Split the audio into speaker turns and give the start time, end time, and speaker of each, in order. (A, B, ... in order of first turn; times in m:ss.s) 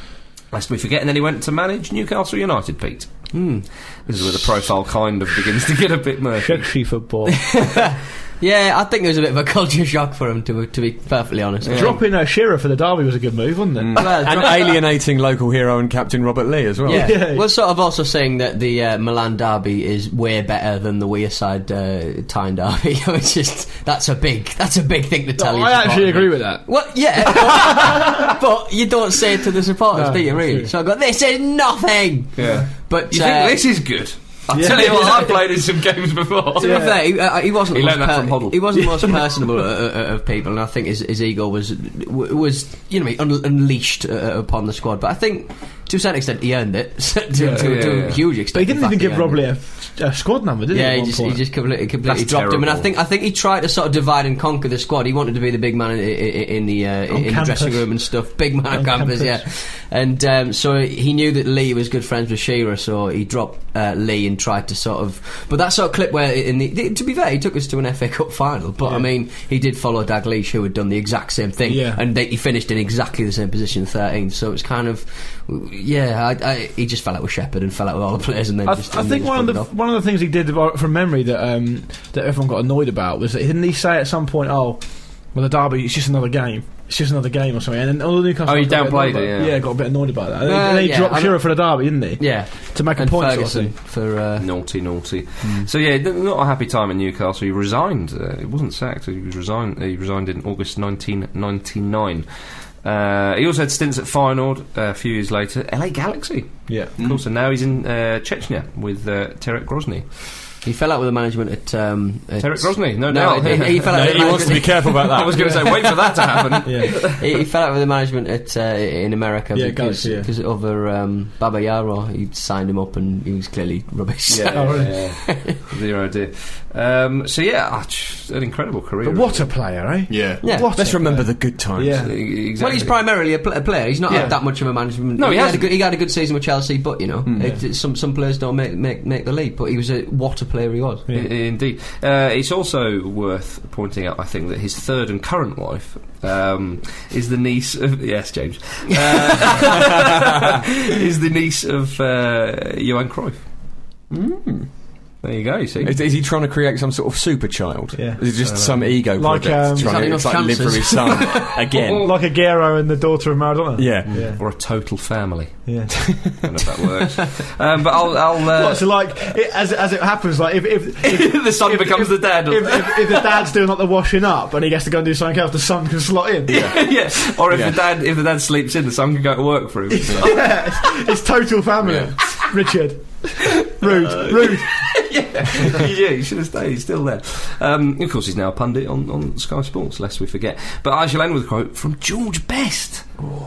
0:00.5-0:06.7 A
0:06.4-0:07.6 B
0:07.3-0:12.0 C
0:11.6-0:12.0 A
0:11.7-0:14.6 B
0:13.8-0:17.2 D
0:14.0-0:14.7 C
0:16.8-0:33.6 C
0:16.9-0:17.5 B
0:25.4-0:28.2 B
0:29.9-0:30.7 B
0:32.4-0:36.9 A
0:32.4-0:32.7 B
0:34.5-0:35.0 B
0:34.6-0:35.4 C
0:36.6-0:49.4 C
0:36.6-0:37.0 B
0:37.7-0:38.9 A
0:38.9-0:39.4 B
0:47.3-0:51.4 B
0:47.5-0:48.3 A
0:50.7-1:19.7 C
0:52.0-0:52.9 A
0:57.1-0:59.4 B
1:08.8-1:09.1 B
1:11.7-1:12.0 B
1:18.6-1:33.7 B
1:28.4-1:29.6 A
1:30.4-1:31.6 C
1:32.2-1:34.5 C
1:34.4-1:42.3 A
1:42.8-1:50.2 A
1:50.6-1:55.0 C
1:52.4-1:57.2 A
1:53.8-1:55.7 D
1:55.4-1:55.7 B
1:56.6-1:57.0 B
1:56.8-2:05.6 C
1:59.5-2:00.3 B
2:04.3-2:09.5 A
2:04.5-2:05.0 B
2:09.0-2:12.1 B
2:10.1-2:12.1 D
2:10.4-2:10.7 C
2:11.9-2:13.0 A
2:12.5-2:21.1 C
2:14.1-2:15.8 A
2:17.2-2:17.6 D
2:21.1-2:33.4 A
2:29.9-2:30.5 D
2:34.1-2:34.7 D
2:35.2-2:36.0 A
2:35.8-2:42.1 D
2:37.9-2:38.2 B
2:38.4-2:39.0 A
2:39.1-2:40.2 B
2:39.8-2:41.6 C
2:41.1-2:42.1 A
2:42.0-2:44.4 B
2:43.8-2:44.3 D
2:44.1-2:49.1 A
2:45.7-2:46.3 B
2:48.5-2:56.7 B
2:51.0-2:53.5 A
2:56.5-2:57.8 D
2:56.5-3:00.8 A
3:00.0-3:04.8 B
3:01.8-3:02.1 D
3:03.8-3:13.1 A
3:05.5-3:05.8 B